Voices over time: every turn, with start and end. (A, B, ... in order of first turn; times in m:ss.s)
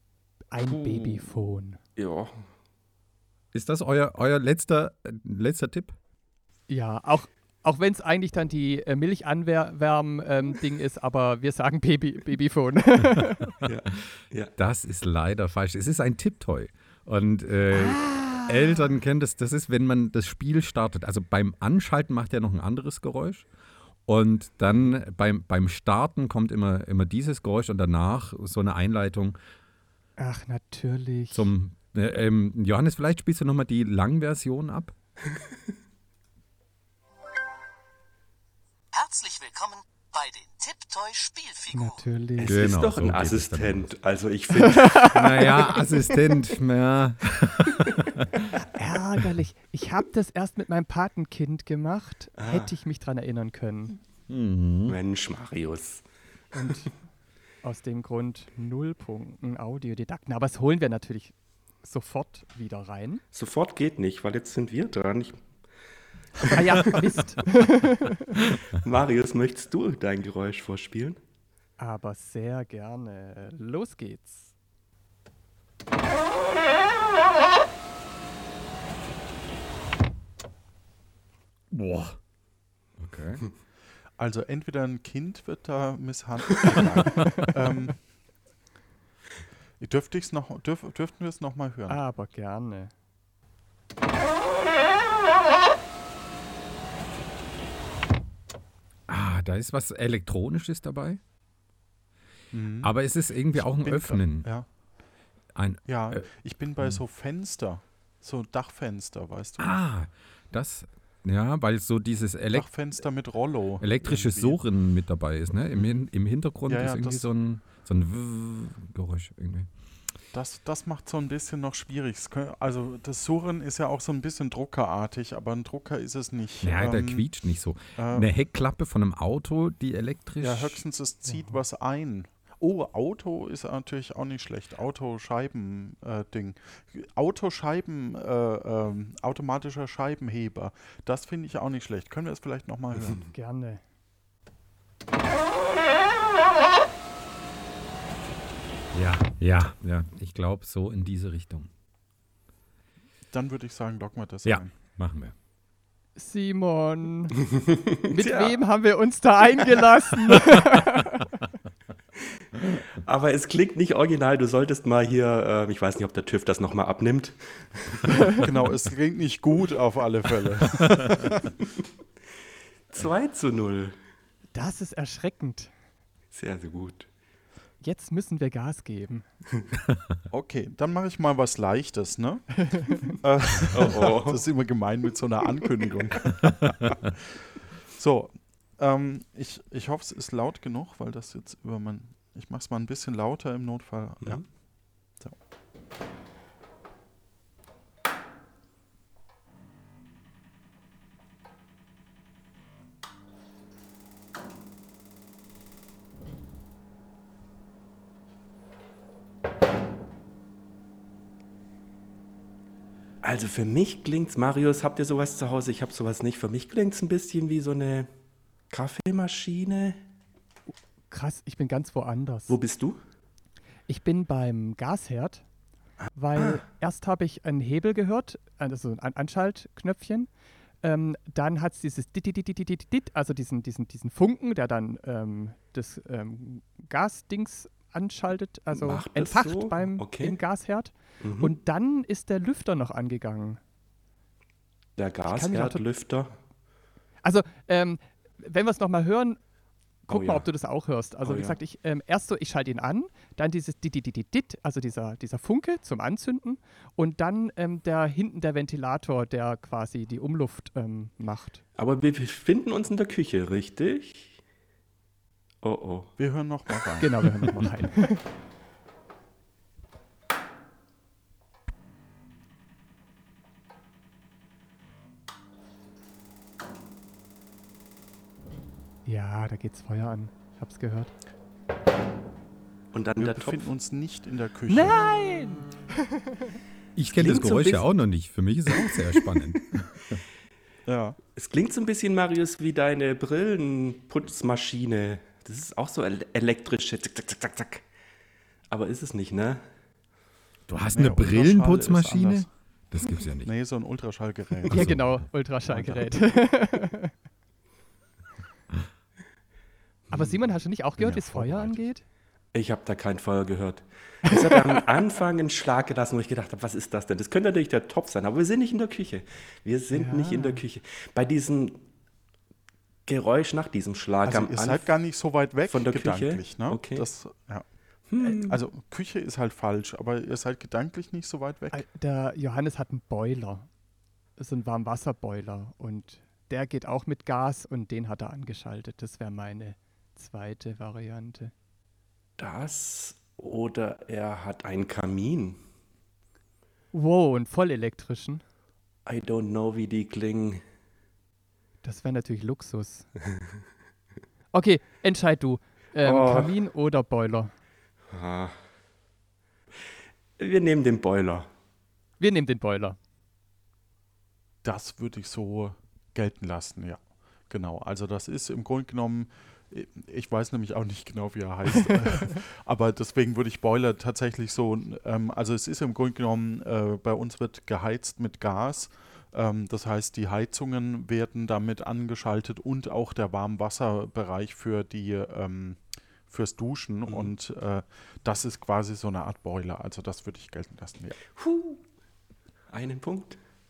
0:00.5-0:01.8 A
0:00.6-0:01.3 B
0:02.0-0:02.4 B
0:03.5-0:05.9 C
0:06.7-0:13.5 A
0:13.6-0:14.5 B
0:14.6-0:23.5 C
0:24.0-0:29.4 C
0:30.2-0:31.5 A
0:31.3-0:34.9 C
0:38.9-0:42.0 D
0:41.7-0:42.6 A
0:42.4-0:45.6 B
0:42.4-0:43.9 C
0:44.6-0:45.4 A
0:45.0-0:48.5 C
0:48.5-0:54.0 A
0:52.4-0:52.7 B
0:54.3-0:55.0 C
0:54.8-0:56.0 B
0:56.5-0:56.9 A
0:57.6-1:03.2 A
1:03.3-1:05.4 B
1:06.4-1:07.0 B
1:06.5-1:08.4 A
1:08.5-1:11.2 B
1:11.8-1:14.5 A
1:21.7-1:22.2 C
1:23.0-1:23.4 C
1:24.2-1:28.0 E
1:29.8-1:32.0 E
1:31.9-1:32.9 A
1:39.1-1:41.2 C
1:42.5-1:42.9 E
1:42.8-1:44.5 C
1:43.5-1:44.7 E
1:45.5-1:46.2 C
1:45.8-1:49.7 E
1:49.6-1:52.6 C
1:52.5-1:54.6 E
1:53.8-1:59.7 C
1:55.7-1:56.1 E
1:56.6-1:57.3 E
2:00.3-2:07.3 E
2:06.6-2:10.8 C
2:08.0-2:08.3 E
2:10.4-2:23.2 E
2:23.3-2:23.8 A
2:28.9-2:31.7 C
2:33.3-2:34.7 E
2:34.4-2:35.3 C
2:36.2-2:37.4 A
2:37.5-2:38.6 B
2:38.1-2:41.3 A
2:42.9-2:48.4 B
2:48.3-2:51.5 E
2:52.9-2:53.9 B
2:54.5-2:55.7 A
2:56.3-2:57.1 B
2:57.8-2:59.2 A
3:00.3-3:02.5 E
3:02.7-3:03.1 A
3:03.0-3:07.4 E
3:03.6-3:04.4 B
3:07.9-3:14.4 E
3:33.2-3:38.1 B
3:38.7-3:40.0 B
3:41.1-3:42.6 A
3:42.5-3:43.0 B
3:43.9-3:45.4 A
3:46.0-3:46.6 B
3:46.1-3:50.3 A
3:50.8-4:03.6 A
3:58.7-4:00.4 B
4:01.2-4:01.5 B
4:05.0-4:06.4 B
4:05.3-4:05.8 A
4:07.2-4:09.4 A
4:10.1-4:21.6 A
4:10.1-4:10.4 B
4:11.2-4:11.6 B
4:21.8-4:24.4 B
4:25.6-4:26.1 B
4:26.2-4:27.1 E
4:27.0-4:28.2 A
4:39.0-4:41.1 A
4:42.9-4:43.7 B
4:43.2-4:45.0 E
4:44.7-4:46.4 A
4:47.0-4:50.2 C
4:47.1-4:47.9 B
4:48.7-4:49.5 B
4:50.8-4:51.2 E
4:51.3-4:57.8 B
4:58.7-4:59.6 B
5:00.7-5:03.5 C
5:00.9-5:02.5 E
5:03.4-5:04.9 E
5:04.7-5:05.2 C
5:04.7-5:07.1 A
5:10.1-5:12.0 A
5:11.1-5:11.7 E
5:12.5-5:21.8 B
5:14.2-5:14.9 A
5:19.9-5:20.6 A
5:23.0-5:24.9 B
5:24.2-5:27.6 E
5:25.7-5:27.0 B
5:28.1-5:28.6 B
5:28.2-5:31.8 E
5:31.7-5:33.7 A
5:34.4-5:41.5 A
5:42.4-5:45.6 B
5:46.9-5:48.4 A
5:49.0-5:50.6 B
5:51.8-5:53.0 A
5:54.5-5:57.5 A
5:56.0-5:56.5 B
5:58.1-5:58.6 B
6:00.4-6:01.5 B
6:02.2-6:03.0 A
6:04.6-6:31.1 E
6:31.4-6:31.8 B
6:32.7-6:33.4 B